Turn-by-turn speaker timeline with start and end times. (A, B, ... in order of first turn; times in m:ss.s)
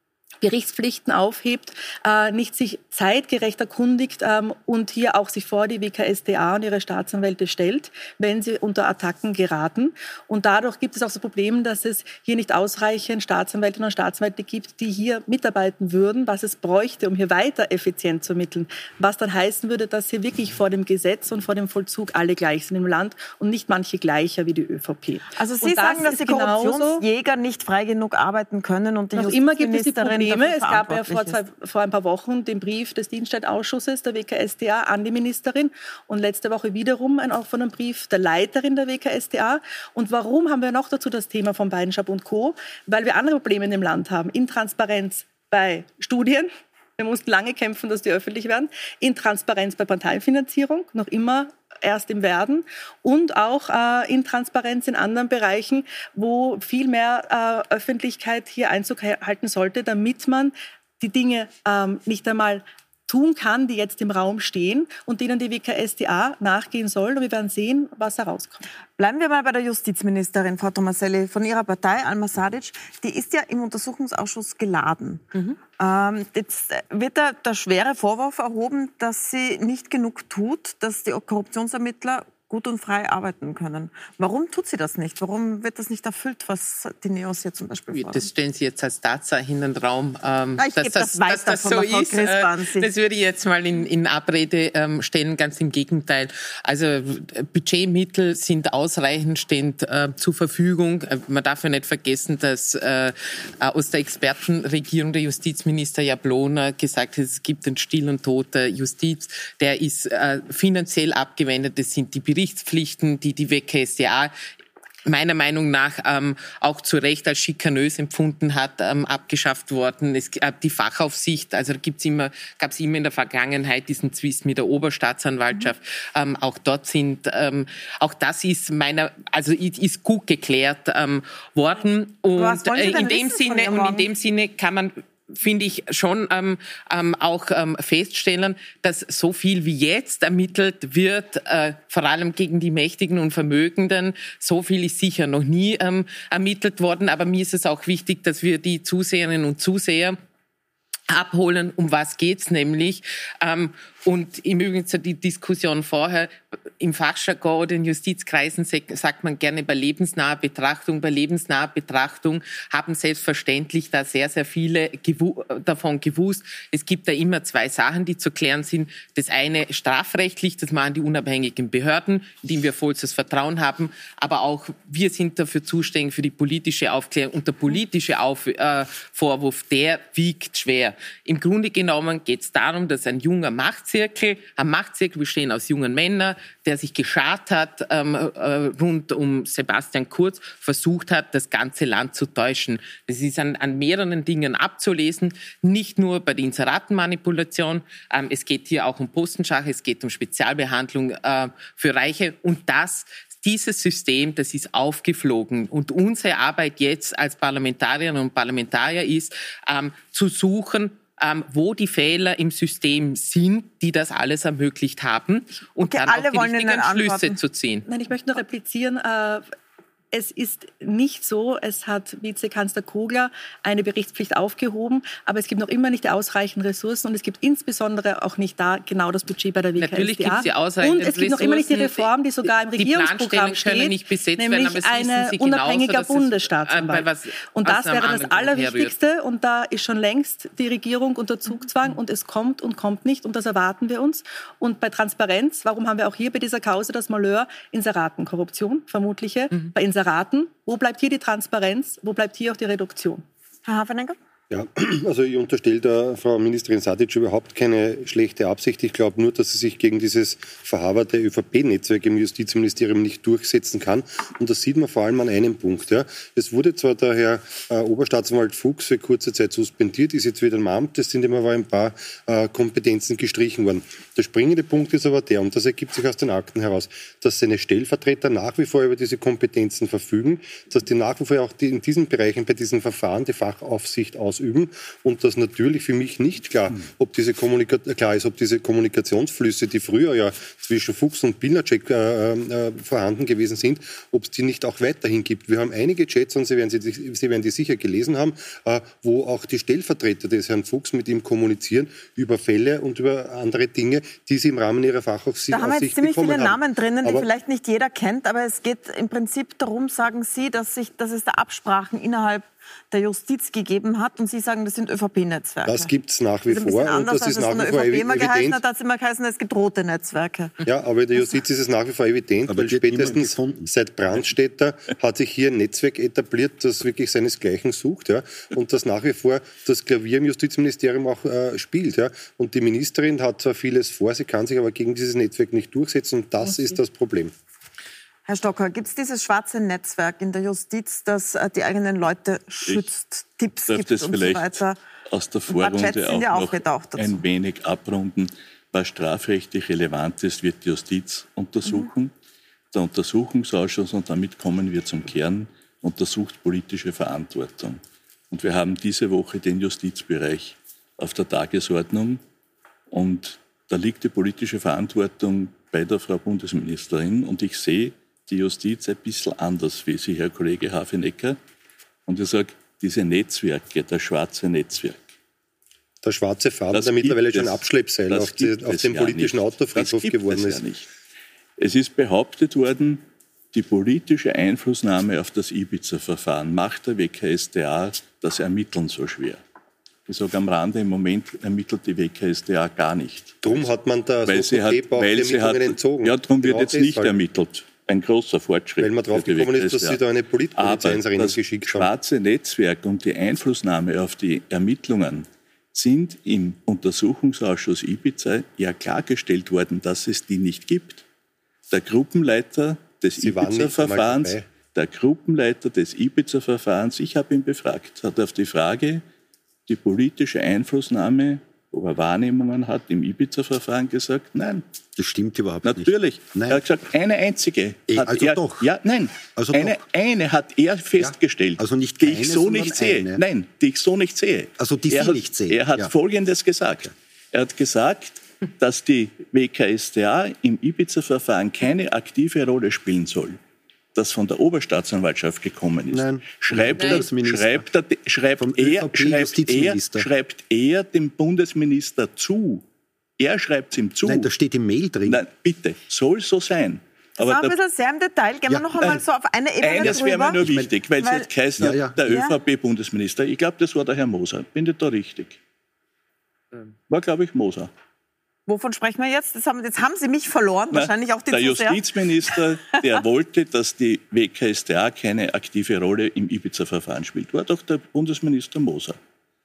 0:00.4-0:27.0 A
0:25.4-0:31.4 B
0:29.2-1:08.6 A
1:09.0-1:28.3 B
1:27.9-1:54.3 C
1:30.6-1:32.9 B
1:55.1-2:30.2 C
2:12.4-2:14.1 B
2:31.1-3:37.9 C
3:35.8-3:37.4 B
3:37.9-3:39.4 A
3:40.1-4:13.2 A
3:49.8-3:58.9 C
4:13.7-4:14.2 B
4:14.5-5:07.3 D
5:05.5-5:15.9 B
5:15.6-5:18.6 D
5:16.5-5:20.6 B
5:20.6-5:37.3 D
5:22.5-5:23.7 E
5:36.4-5:36.8 A
5:38.3-5:44.8 B
5:43.7-5:52.1 F
5:45.5-5:47.2 B
5:52.7-5:57.8 F
5:58.3-6:02.2 F
6:02.9-6:11.4 F
6:12.1-6:15.1 F
6:16.0-6:20.6 D
6:16.7-6:20.9 F
6:21.6-6:23.0 F
6:23.5-6:29.4 F
6:30.1-6:33.7 F
6:33.4-6:37.1 D
6:34.2-6:40.0 F
6:38.8-6:41.9 D
6:40.6-6:51.0 F
6:51.7-6:59.0 F
6:53.2-6:54.4 D
6:59.7-7:04.6 F
7:05.0-7:06.6 E
7:05.6-7:23.4 F
7:07.9-7:08.7 E
7:09.4-7:09.8 E
7:10.9-7:13.2 E
7:14.6-7:15.9 E
7:24.0-7:32.6 F
7:25.9-7:27.7 E
7:26.8-7:27.0 C
7:28.4-7:30.1 E
7:33.2-7:34.3 F
7:34.0-7:35.2 E
7:35.1-7:37.6 F
7:37.2-7:40.4 B
7:38.5-7:39.0 E
7:39.6-7:45.4 F
7:39.8-7:40.7 E
7:41.0-7:41.3 B
7:41.6-7:42.0 E
7:42.1-7:42.3 B
7:46.9-7:47.7 F
7:48.5-7:52.4 B
7:50.7-7:59.0 F